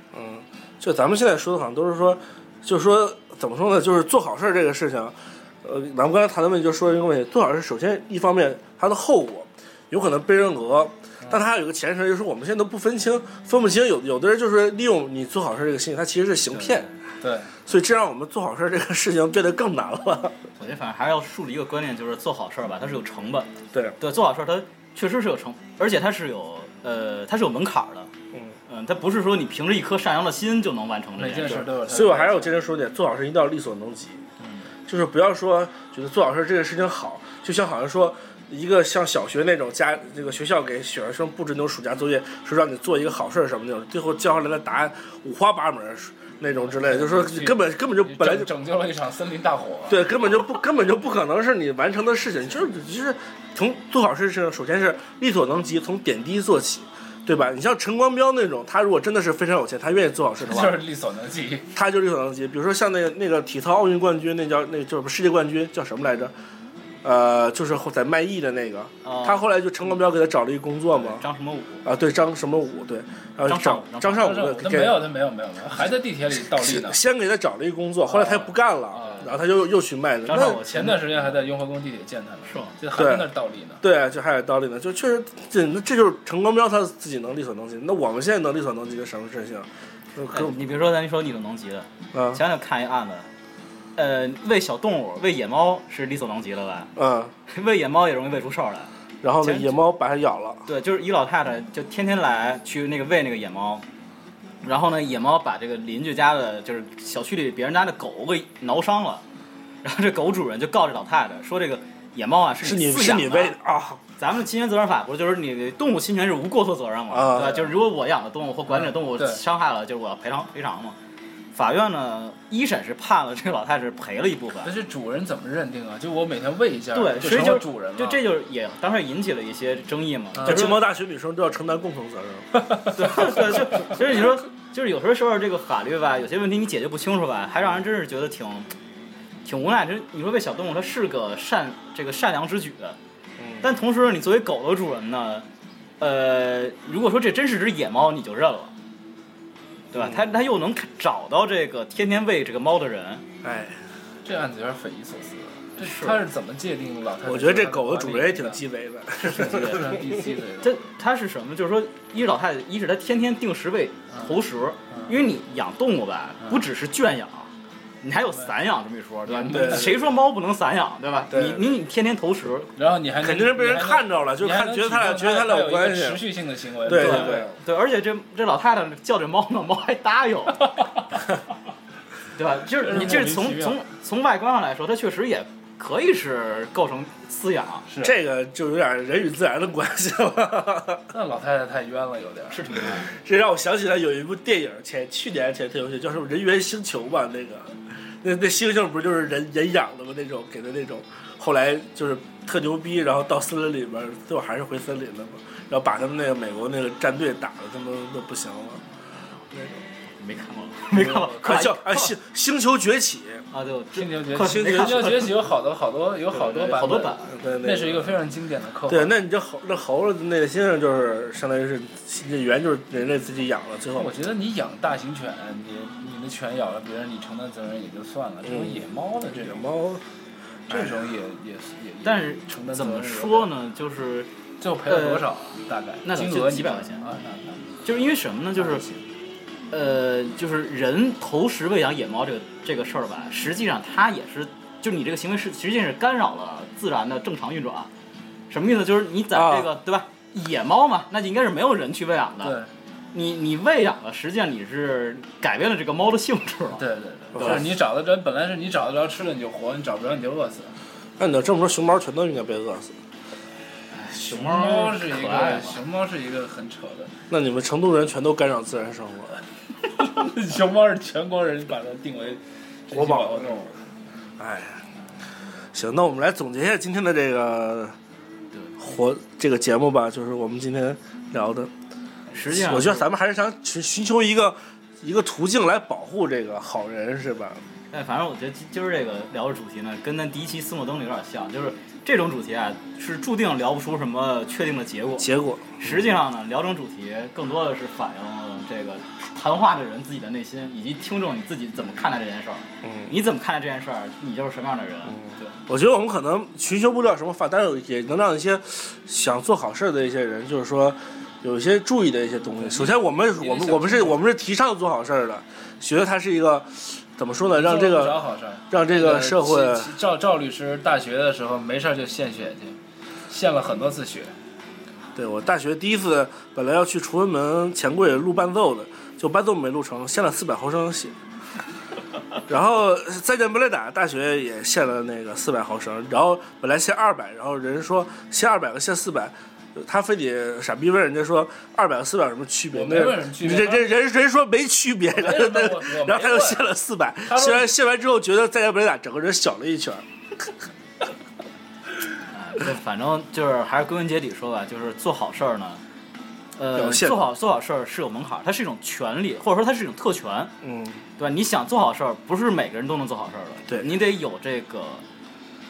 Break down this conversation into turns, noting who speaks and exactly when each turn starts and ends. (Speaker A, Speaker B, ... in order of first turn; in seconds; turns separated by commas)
Speaker A: 0.1-16.9, Speaker B: 11.2-11.5, Speaker B: 17.2-17.5, Speaker A: 17.6-20.4, Speaker C: 20.6-28.1, Speaker A: 23.7-24.0, Speaker A: 28.3-28.6, Speaker C: 28.7-31.7, Speaker B: 31.2-32.5, Speaker A: 31.9-34.2, Speaker A: 34.9-48.5, Speaker B: 46.6-50.1, Speaker A: 49.9-60.8, Speaker B: 60.4-61.7, Speaker A: 61.7-66.3, Speaker A: 67.0-71.2, Speaker C: 69.0-69.4, Speaker C: 70.9-71.8, Speaker A: 71.8-75.0, Speaker C: 73.5-74.4, Speaker B: 74.1-77.0, Speaker A: 76.4-80.6, Speaker B: 78.1-79.3, Speaker C: 80.2-81.2, Speaker B: 80.6-83.8, Speaker C: 82.5-82.7, Speaker A: 82.9-83.3, Speaker A: 83.8-90.6, Speaker C: 90.3-93.3, Speaker A: 92.1-92.4, Speaker C: 94.0-96.9, Speaker A: 97.0-97.3, Speaker C: 97.5-99.8, Speaker A: 99.2-100.6, Speaker C: 100.7-103.8, Speaker C: 104.6-109.2, Speaker C: 109.8-113.5, Speaker A: 112.6-114.0, Speaker C: 114.2-121.0, Speaker A: 117.1-117.7, Speaker B: 118.7-119.4, Speaker C: 121.5-124.7, Speaker B: 124.6-128.2, Speaker C: 126.9-130.8, Speaker B: 130.4-130.7, Speaker A: 130.4-133.9, Speaker B: 132.6-132.9, Speaker C: 132.9-138.7, Speaker C: 139.4-143.0, Speaker A: 143.4-143.7, Speaker C: 143.6-145.5, Speaker C: 146.0-148.7, Speaker C: 149.9-153.2, Speaker A: 149.9-150.2, Speaker A: 153.4-153.8, Speaker B: 154.2-158.6, Speaker C: 155.8-156.2, Speaker A: 157.2-160.3, Speaker B: 159.2-160.7, Speaker C: 159.4-160.0, Speaker C: 160.6-167.5, Speaker B: 164.9-165.1, Speaker C: 168.0-172.7, Speaker B: 169.3-170.0, Speaker A: 169.5-170.0, Speaker A: 171.3-171.7, Speaker B: 172.8-177.5, Speaker A: 173.2-176.2, Speaker A: 176.8-177.5, Speaker C: 176.9-180.9, Speaker C: 182.3-187.8, Speaker B: 182.8-183.8, Speaker B: 187.9-188.1, Speaker A: 188.0-191.0, Speaker B: 191.1-192.8, Speaker C: 192.5-193.1, Speaker A: 193.0-208.8, Speaker A: 209.5-209.8, Speaker C: 210.2-212.1, Speaker B: 210.9-211.4, Speaker A: 211.0-213.4, Speaker C: 213.5-215.4, Speaker B: 213.9-219.2, Speaker A: 214.4-215.0, Speaker C: 216.3-217.3, Speaker A: 217.2-218.2, Speaker A: 218.9-224.1, Speaker B: 223.9-229.6, Speaker A: 228.4-230.0, Speaker A: 230.7-230.9, Speaker B: 230.7-233.5, Speaker C: 232.0-234.3, Speaker B: 234.6-237.7, Speaker C: 234.8-235.3, Speaker C: 236.0-237.1, Speaker C: 237.8-238.9, Speaker B: 238.6-239.0, Speaker C: 239.7-247.9, Speaker C: 248.5-252.6, Speaker A: 249.3-249.7, Speaker B: 252.4-252.7, Speaker C: 253.1-256.8, Speaker B: 256.8-260.7, Speaker A: 257.4-257.6, Speaker C: 257.4-257.6, Speaker A: 261.2-262.9, Speaker C: 263.9-265.8, Speaker B: 264.1-267.1, Speaker A: 267.3-269.3, Speaker B: 269.9-273.8, Speaker A: 272.9-273.8, Speaker A: 274.4-274.8, Speaker A: 275.7-277.9, Speaker A: 278.8-281.7, Speaker C: 282.3-283.1, Speaker A: 282.4-287.6, Speaker C: 287.9-295.3, Speaker A: 295.2-296.1, Speaker C: 295.8-305.4, Speaker A: 302.8-303.1, Speaker A: 305.7-319.9, Speaker B: 312.6-314.2, Speaker B: 317.5-324.3, Speaker A: 325.1-331.1, Speaker A: 332.5-350.5, Speaker B: 342.7-343.9, Speaker B: 345.1-346.6, Speaker B: 347.2-347.7, Speaker C: 352.3-355.8, Speaker C: 356.6-360.5, Speaker A: 356.7-357.3, Speaker A: 360.6-361.0, Speaker C: 361.2-365.0